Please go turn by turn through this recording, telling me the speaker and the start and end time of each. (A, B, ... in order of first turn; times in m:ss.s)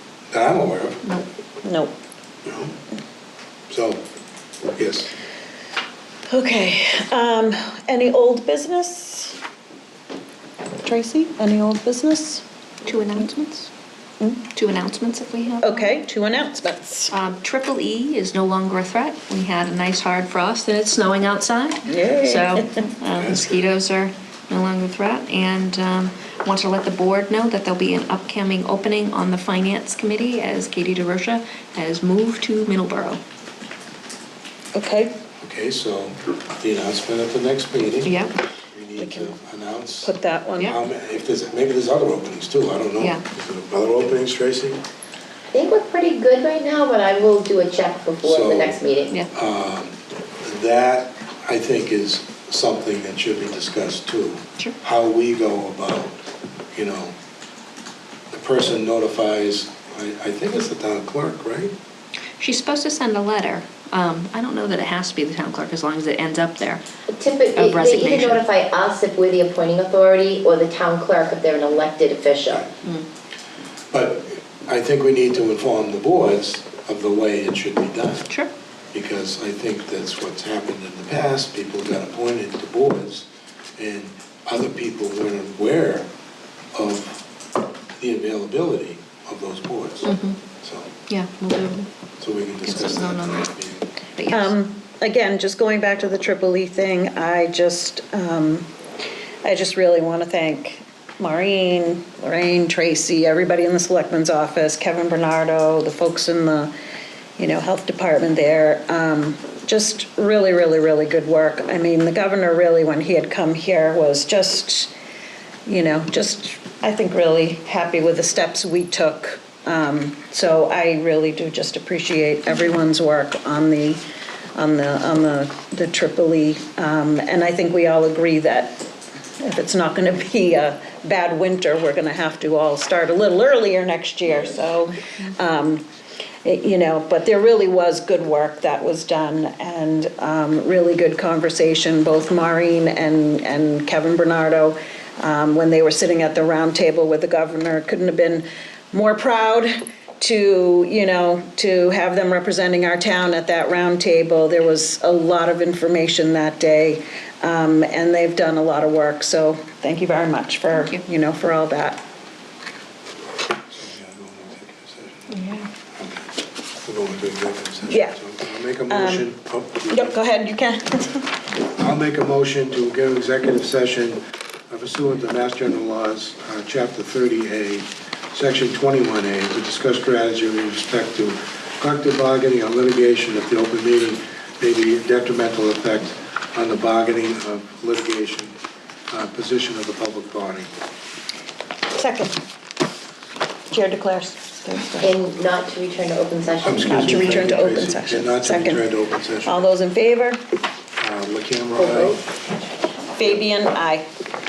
0:00.3-0:01.0 A
0:01.6-0:01.9 B
0:02.4-0:02.8 A
0:03.7-0:04.0 A
0:04.6-0:05.1 A
0:06.3-0:09.4 B
0:10.8-0:12.4 B
0:12.8-0:13.7 C
0:14.5-0:16.0 C
0:15.6-0:17.1 B
0:17.1-0:33.2 C
0:21.9-0:22.8 B
0:23.1-0:23.7 A
0:34.7-0:35.2 B
0:35.4-0:44.8 A
0:38.0-0:38.4 C
0:39.0-0:39.3 B
0:40.0-0:40.8 B
0:45.5-0:49.2 D
0:48.2-0:48.8 A
0:49.3-0:57.2 A
0:58.3-1:01.7 A
1:02.4-1:06.8 C
1:07.1-1:12.6 D
1:07.6-1:08.4 C
1:13.9-1:18.3 A
1:18.9-1:26.1 A
1:26.7-1:27.2 A
1:28.0-1:30.9 A
1:30.0-1:30.4 C
1:31.1-1:31.9 C
1:32.2-1:33.9 A
1:32.6-1:33.5 C
1:34.2-1:34.6 C
1:34.3-1:38.7 B
1:39.4-1:46.7 B
1:47.4-1:54.9 B
1:55.7-2:04.0 B
2:04.6-2:08.8 B
2:09.4-2:15.8 B
2:16.4-2:42.0 B
2:40.7-2:41.0 C
2:43.8-2:45.4 A
2:45.3-2:45.7 C
2:45.9-2:50.2 A
2:47.9-2:48.2 B
2:48.9-2:49.3 B
2:49.9-2:51.4 B
2:51.8-3:08.6 A
3:09.1-3:10.7 A
3:11.9-3:12.4 B
3:13.7-3:15.1 B
3:15.0-3:17.4 D
3:16.6-3:19.7 A
3:16.8-3:18.9 B
3:19.4-3:20.4 B
3:21.0-3:22.2 A
3:21.8-3:22.2 D
3:23.1-3:24.1 B